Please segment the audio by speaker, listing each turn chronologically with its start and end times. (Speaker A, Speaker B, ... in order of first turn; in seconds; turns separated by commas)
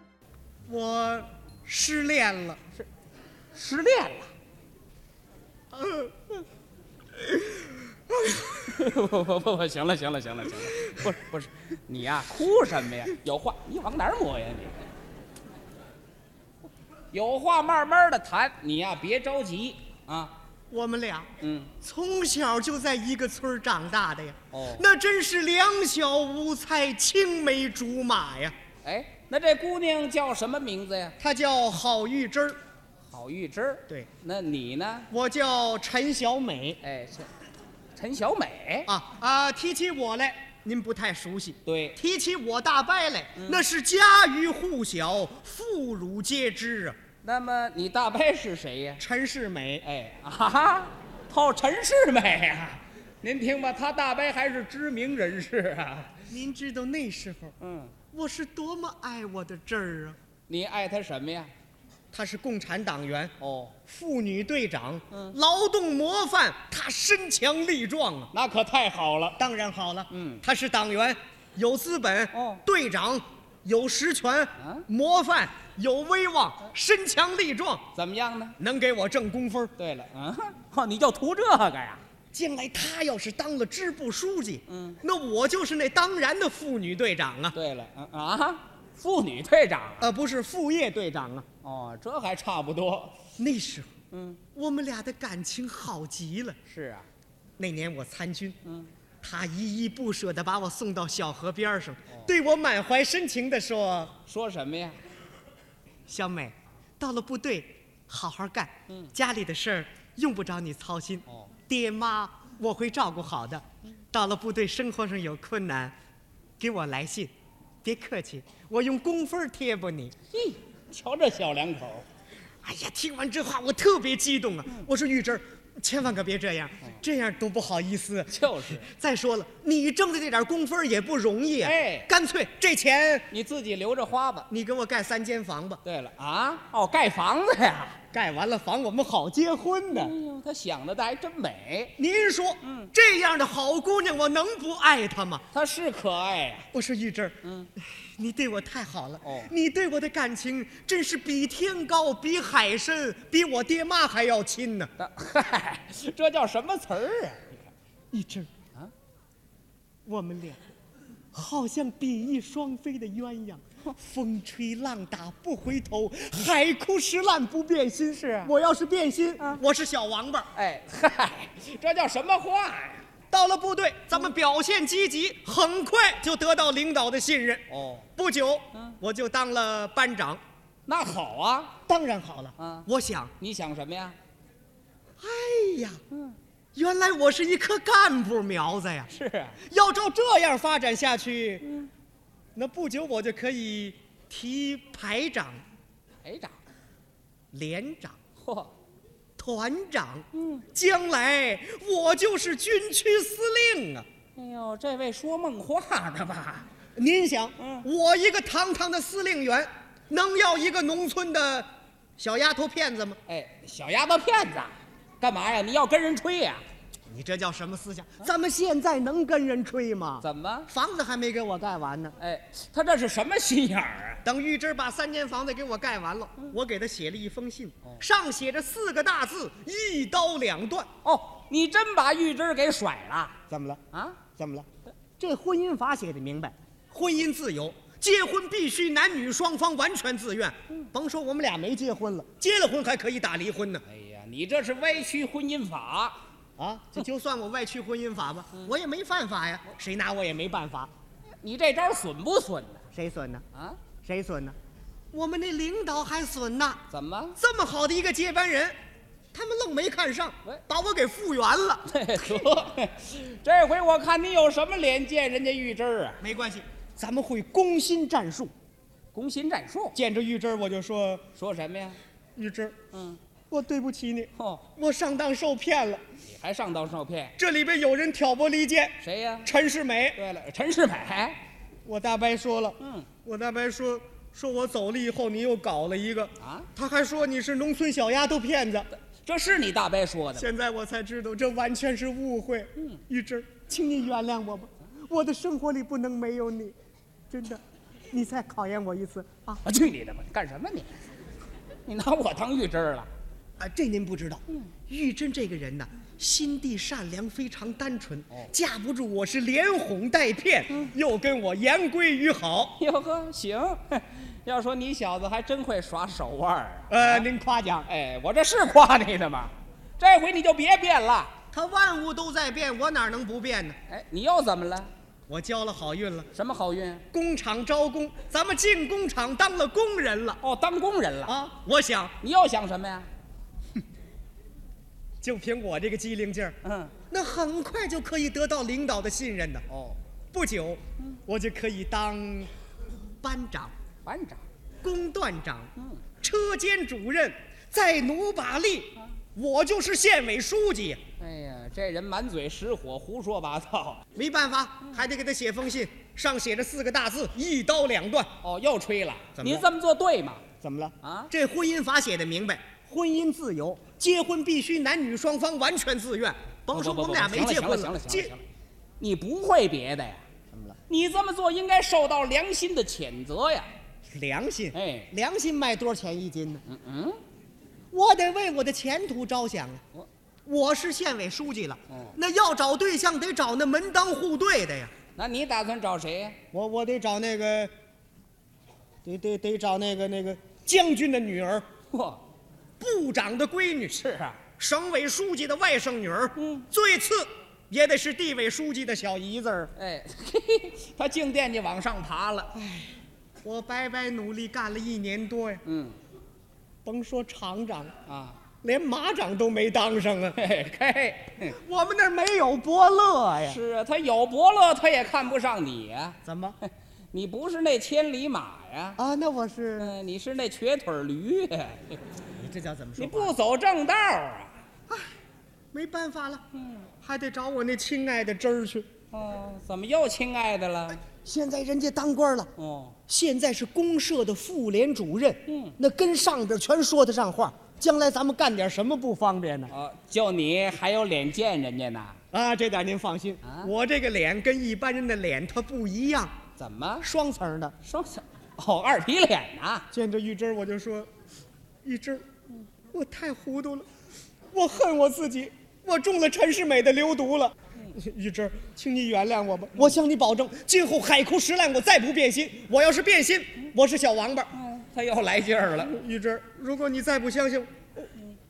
Speaker A: 0.7-2.6, Speaker B: 3.5-4.3, Speaker A: 5.7-6.2, Speaker B: 8.5-14.8, Speaker B: 17.1-20.3, Speaker A: 20.7-28.5, Speaker B: 21.4-21.7, Speaker B: 24.5-24.9, Speaker B: 28.8-31.1, Speaker A: 31.2-32.6, Speaker B: 33.1-35.1, Speaker A: 35.1-36.8, Speaker B: 36.8-37.3, Speaker B: 37.9-38.9, Speaker A: 38.9-47.0, Speaker B: 41.6-42.0, Speaker B: 43.4-43.6, Speaker B: 47.2-49.0, Speaker A: 49.0-49.8, Speaker B: 49.8-56.2, Speaker A: 56.3-57.5, Speaker B: 57.6-57.9, Speaker A: 58.1-60.2, Speaker B: 60.5-61.5, Speaker A: 62.1-63.3, Speaker B: 63.4-63.7, Speaker A: 63.9-68.3, Speaker B: 65.1-65.4, Speaker B: 68.3-69.4, Speaker A: 69.4-77.8, Speaker B: 70.1-70.4, Speaker B: 72.3-72.6, Speaker B: 74.6-74.8, Speaker B: 77.9-78.6, Speaker A: 78.6-79.7, Speaker B: 79.8-82.0, Speaker A: 82.3-87.5, Speaker B: 84.7-85.0, Speaker B: 87.5-90.1, Speaker A: 90.0-91.5, Speaker B: 91.6-93.2, Speaker A: 93.4-93.9, Speaker B: 94.1-94.4, Speaker A: 94.5-96.6, Speaker B: 96.7-97.1, Speaker A: 97.6-98.6, Speaker B: 98.6-98.9, Speaker A: 99.2-104.1, Speaker B: 104.2-105.0, Speaker A: 106.1-115.9, Speaker A: 116.6-117.3, Speaker A: 117.8-120.1, Speaker B: 120.3-122.0, Speaker A: 122.6-133.3, Speaker B: 128.3-128.9, Speaker B: 131.6-132.1, Speaker B: 133.3-134.5, Speaker A: 134.5-135.8, Speaker B: 135.8-138.0, Speaker A: 138.1-140.1, Speaker B: 139.9-141.9, Speaker A: 142.0-145.4, Speaker B: 142.6-142.9, Speaker B: 145.5-146.7, Speaker A: 146.7-154.9, Speaker B: 149.2-149.5, Speaker B: 155.0-157.6, Speaker A: 158.1-158.5, Speaker A: 160.0-160.6, Speaker A: 161.3-170.5, Speaker B: 168.3-168.5, Speaker B: 170.5-173.0, Speaker A: 173.3-180.4, Speaker B: 177.7-178.1, Speaker B: 180.8-181.7, Speaker A: 181.9-183.3, Speaker B: 182.6-182.9, Speaker B: 183.4-184.2, Speaker A: 185.2-186.0, Speaker A: 186.7-189.1, Speaker B: 189.1-189.6, Speaker A: 189.6-191.7, Speaker A: 192.5-195.6, Speaker B: 196.2-196.6, Speaker A: 197.5-198.2, Speaker B: 198.4-198.7, Speaker A: 199.4-204.1, Speaker B: 200.4-200.6, Speaker B: 204.3-206.7, Speaker A: 206.9-213.2, Speaker B: 207.6-207.9, Speaker B: 213.2-216.6, Speaker A: 217.1-222.2, Speaker B: 220.2-220.7, Speaker B: 222.2-224.2, Speaker A: 224.2-230.9, Speaker B: 231.0-233.4, Speaker A: 233.5-233.8, Speaker B: 233.9-234.2, Speaker A: 234.4-234.7, Speaker A: 235.2-243.8, Speaker B: 243.8-246.2, Speaker A: 246.6-250.9, Speaker B: 251.4-252.8, Speaker A: 252.9-253.4, Speaker B: 253.5-253.8, Speaker A: 254.0-254.6, Speaker A: 255.1-256.8, Speaker B: 256.9-257.4, Speaker A: 257.4-258.8, Speaker A: 259.3-262.4, Speaker B: 261.9-266.2, Speaker A: 266.2-268.5, Speaker B: 269.1-269.9, Speaker A: 269.9-271.2, Speaker B: 271.3-272.0, Speaker A: 272.3-272.7, Speaker B: 272.9-273.2, Speaker A: 273.5-276.0, Speaker B: 274.4-274.6, Speaker B: 276.2-277.3, Speaker A: 277.4-280.2, Speaker B: 279.0-279.5, Speaker B: 280.1-281.4, Speaker A: 281.8-288.9, Speaker B: 282.8-283.1, Speaker B: 286.4-286.7, Speaker B: 289.2-290.5, Speaker A: 290.3-296.7, Speaker A: 297.3-299.6, Speaker B: 299.6-301.0, Speaker B: 301.8-303.1, Speaker A: 303.6-312.8, Speaker B: 312.8-317.3, Speaker A: 316.9-317.9, Speaker B: 317.9-321.3, Speaker A: 321.5-323.8, Speaker B: 323.9-324.9, Speaker A: 325.3-326.3, Speaker B: 326.3-327.0, Speaker A: 327.1-330.4, Speaker B: 330.4-331.4, Speaker A: 331.2-332.1, Speaker B: 332.2-333.1, Speaker A: 335.2-336.6, Speaker B: 336.6-336.9, Speaker A: 337.1-339.6, Speaker B: 339.7-340.0, Speaker A: 340.3-342.5, Speaker A: 343.2-343.7, Speaker B: 344.0-344.4, Speaker A: 344.8-351.0, Speaker B: 351.2-354.0, Speaker A: 354.1-358.3, Speaker B: 358.4-360.4, Speaker A: 359.3-359.7, Speaker A: 360.6-368.3, Speaker B: 361.0-361.3, Speaker B: 366.7-368.4, Speaker B: 369.0-370.2, Speaker A: 370.5-370.8, Speaker B: 370.9-373.7, Speaker A: 374.1-376.6, Speaker B: 374.7-375.1, Speaker B: 376.6-377.2, Speaker A: 377.9-379.8, Speaker A: 380.4-384.9, Speaker B: 381.9-382.1, Speaker B: 385.1-386.4, Speaker A: 386.5-387.7, Speaker A: 389.0-391.6, Speaker B: 391.9-392.2, Speaker A: 392.8-394.0, Speaker B: 393.9-394.4, Speaker A: 394.6-399.7, Speaker B: 396.4-396.7, Speaker B: 399.7-402.5, Speaker A: 402.5-405.6, Speaker B: 405.6-405.9, Speaker A: 406.8-407.9, Speaker B: 408.1-408.4, Speaker A: 408.6-410.4, Speaker B: 410.4-411.6, Speaker A: 411.4-413.6, Speaker B: 413.4-419.0, Speaker A: 416.2-416.6, Speaker A: 419.0-419.9, Speaker B: 419.8-422.0, Speaker A: 422.4-423.4, Speaker B: 423.0-424.5, Speaker A: 425.7-426.4, Speaker B: 426.5-426.9, Speaker A: 427.0-428.9, Speaker B: 429.1-431.0, Speaker A: 431.1-432.5, Speaker B: 432.6-432.9, Speaker A: 433.1-439.7, Speaker B: 435.5-435.8, Speaker B: 439.7-442.2, Speaker A: 442.3-446.3, Speaker B: 443.4-443.7, Speaker B: 446.6-447.1, Speaker A: 447.0-447.8, Speaker B: 447.8-449.9, Speaker A: 449.9-451.1, Speaker A: 451.8-452.2, Speaker A: 452.9-453.9, Speaker A: 454.5-464.5, Speaker B: 464.5-465.9, Speaker A: 465.7-468.1